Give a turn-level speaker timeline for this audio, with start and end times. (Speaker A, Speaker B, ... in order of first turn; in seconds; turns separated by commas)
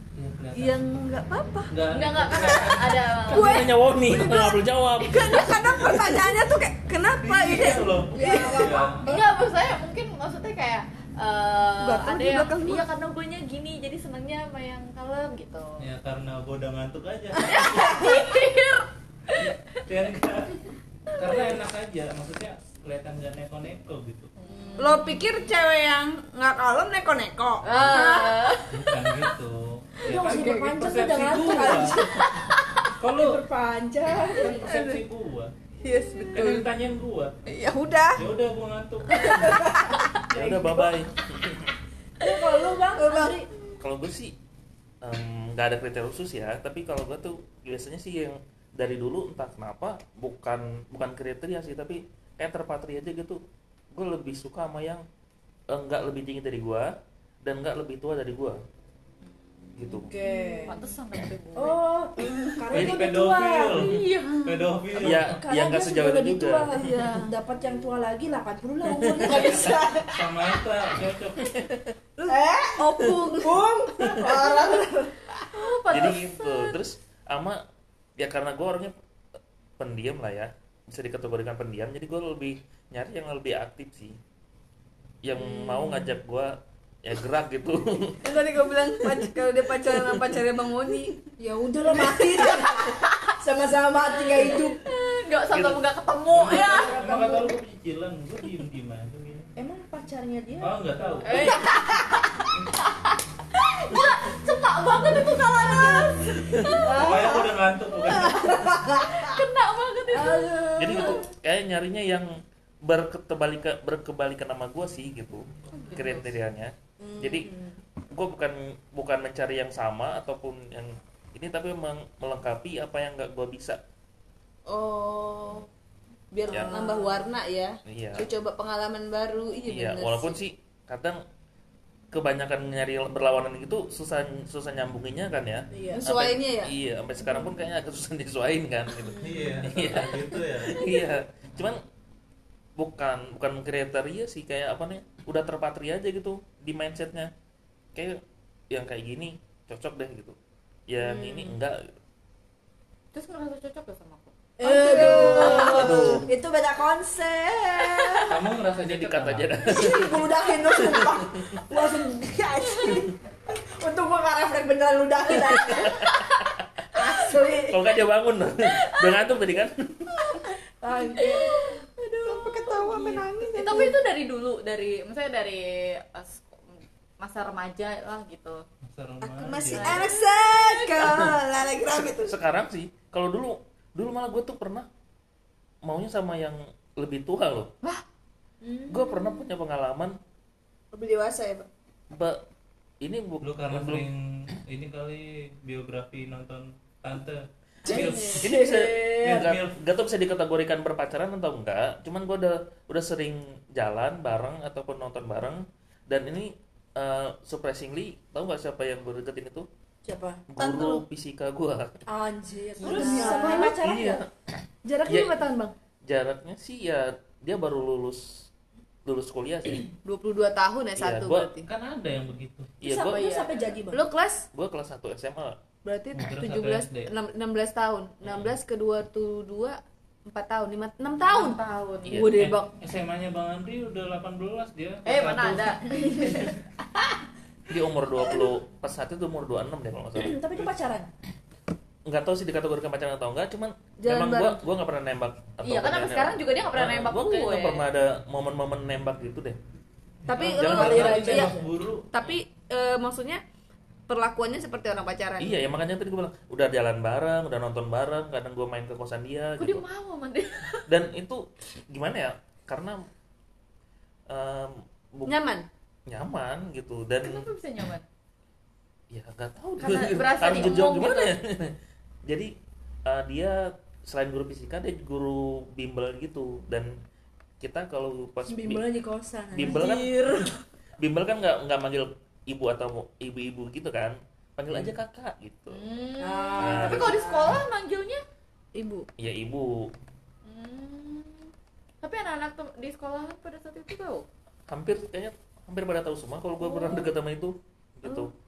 Speaker A: 0.2-0.9, Speaker B: 0.6-1.7, Speaker A: 1.7-2.9, Speaker C: 1.9-3.7, Speaker D: 3.3-6.1, Speaker B: 3.3-9.3, Speaker A: 7.2-9.1, Speaker E: 8.1-9.2, Speaker C: 9.0-15.8, Speaker B: 11.8-12.9, Speaker A: 15.8-17.9, Speaker C: 17.4-19.5, Speaker B: 17.6-18.2, Speaker A: 19.4-24.3, Speaker C: 24.4-25.1, Speaker E: 24.5-25.2, Speaker B: 24.8-28.3, Speaker C: 27.6-28.8, Speaker E: 27.9-28.2, Speaker A: 28.7-32.0, Speaker E: 30.1-32.3, Speaker B: 30.2-30.6, Speaker B: 32.0-32.5, Speaker A: 33.0-33.4, Speaker E: 33.0-34.7, Speaker A: 34.4-35.5, Speaker B: 34.5-35.0, Speaker B: 35.8-36.7, Speaker A: 36.3-37.4, Speaker B: 37.5-38.2, Speaker A: 38.1-39.6, Speaker B: 39.1-40.1, Speaker E: 39.5-41.0, Speaker D: 40.3-41.7, Speaker E: 42.2-43.5, Speaker B: 42.3-43.4, Speaker D: 43.8-44.4, Speaker D: 45.0-53.4, Speaker D: 53.9-55.0, Speaker D: 55.7-56.9, Speaker D: 57.4-58.6, Speaker C: 59.6-60.0, Speaker D: 59.8-60.1, Speaker E: 60.0-60.8, Speaker B: 60.2-60.8, Speaker C: 60.7-61.8, Speaker E: 61.6-63.9, Speaker B: 62.2-62.6, Speaker A: 62.7-65.4, Speaker D: 62.7-63.1, Speaker C: 63.6-64.4, Speaker B: 64.3-64.7, Speaker D: 65.0-67.1, Speaker E: 65.0-70.2, Speaker B: 66.8-67.3, Speaker D: 68.8-69.6, Speaker A: 69.3-71.7, Speaker B: 72.2-73.6, Speaker E: 72.3-75.2, Speaker C: 75.5-76.8, Speaker D: 75.9-77.6, Speaker D: 78.2-78.9, Speaker D: 79.8-84.2, Speaker D: 85.2-88.3, Speaker B: 85.4-86.1, Speaker B: 88.2-91.2, Speaker E: 91.4-94.8, Speaker C: 94.4-97.3, Speaker D: 95.5-95.8, Speaker A: 96.3-99.5, Speaker E: 96.5-97.5, Speaker E: 99.6-102.5, Speaker A: 100.6-101.4, Speaker C: 101.2-102.1, Speaker C: 102.8-107.3, Speaker E: 103.9-104.2, Speaker E: 104.9-109.4, Speaker D: 106.5-106.8, Speaker A: 106.8-108.7, Speaker C: 109.0-111.2, Speaker E: 110.1-111.3, Speaker D: 110.8-112.3, Speaker D: 112.8-117.5, Speaker C: 115.8-116.2, Speaker E: 117.0-117.8, Speaker D: 118.1-123.8, Speaker B: 124.7-125.7, Speaker B: 126.3-130.4, Speaker D: 126.5-126.9, Speaker E: 126.5-127.3, Speaker D: 127.9-128.3, Speaker D: 129.7-131.2, Speaker D: 132.1-141.8, Speaker E: 135.7-136.0, Speaker B: 135.9-136.7, Speaker B: 137.2-137.5, Speaker E: 139.1-139.5, Speaker A: 139.2-140.8, Speaker D: 142.8-147.3, Speaker D: 147.9-150.4, Speaker D: 150.9-151.9, Speaker B: 151.1-151.4, Speaker C: 153.1-156.1, Speaker E: 154.6-158.3, Speaker B: 154.6-156.1, Speaker D: 155.0-156.3, Speaker A: 158.3-159.7, Speaker D: 158.8-161.7, Speaker E: 159.6-166.1, Speaker C: 162.7-163.0, Speaker D: 165.5-166.5, Speaker C: 165.7-166.5, Speaker E: 166.9-167.9, Speaker D: 167.7-169.9, Speaker C: 168.7-169.3, Speaker C: 170.2-170.5, Speaker E: 170.8-171.5, Speaker C: 171.2-178.6, Speaker B: 172.2-173.9, Speaker E: 173.4-173.9, Speaker A: 178.8-180.1, Speaker B: 179.4-182.3, Speaker C: 179.8-181.2, Speaker D: 181.0-184.9, Speaker D: 185.8-187.7, Speaker E: 188.6-189.4, Speaker D: 188.9-190.2, Speaker B: 190.9-191.7, Speaker D: 192.1-192.4, Speaker D: 193.0-194.1, Speaker A: 193.4-198.6, Speaker B: 197.9-199.3, Speaker E: 197.9-198.4, Speaker D: 198.3-209.7, Speaker A: 199.2-199.8, Speaker E: 210.0-210.4, Speaker D: 210.5-212.0, Speaker E: 212.1-214.2, Speaker C: 212.8-213.7, Speaker B: 212.8-213.8, Speaker D: 213.7-214.3, Speaker B: 214.8-215.7, Speaker D: 215.1-215.4, Speaker D: 216.1-218.5, Speaker D: 219.1-219.9, Speaker B: 220.0-221.7, Speaker D: 221.0-221.5, Speaker A: 221.7-222.8, Speaker D: 222.8-223.2, Speaker E: 222.8-224.1, Speaker C: 223.1-223.7, Speaker B: 223.9-224.4, Speaker D: 224.5-225.6, Speaker B: 225.8-232.7, Speaker A: 226.1-227.1, Speaker C: 231.3-232.2, Speaker D: 232.1-232.4, Speaker A: 232.3-236.6, Speaker C: 235.1-236.5, Speaker D: 237.7-240.5, Speaker E: 240.2-241.1, Speaker D: 242.1-249.6, Speaker B: 244.0-244.6, Speaker C: 245.6-247.9, Speaker A: 250.3-252.1, Speaker B: 250.3-253.4, Speaker D: 250.4-251.5, Speaker E: 251.3-251.6, Speaker B: 254.1-255.6, Speaker D: 255.4-259.8, Speaker C: 259.6-260.9, Speaker D: 260.9-263.0, Speaker D: 264.3-265.4, Speaker B: 265.3-265.7, Speaker D: 266.1-267.5, Speaker C: 267.2-268.1, Speaker D: 269.1-271.8, Speaker C: 269.8-271.3, Speaker D: 272.3-272.5, Speaker D: 273.1-276.9, Speaker D: 277.6-278.8, Speaker E: 278.5-279.8, Speaker D: 279.5-280.3, Speaker C: 279.6-280.6, Speaker D: 281.0-285.8, Speaker C: 285.7-288.2, Speaker E: 286.2-287.6, Speaker D: 286.6-287.2, Speaker B: 288.8-289.1, Speaker D: 289.2-289.9, Speaker C: 290.5-291.5, Speaker C: 292.0-294.3, Speaker D: 294.7-298.3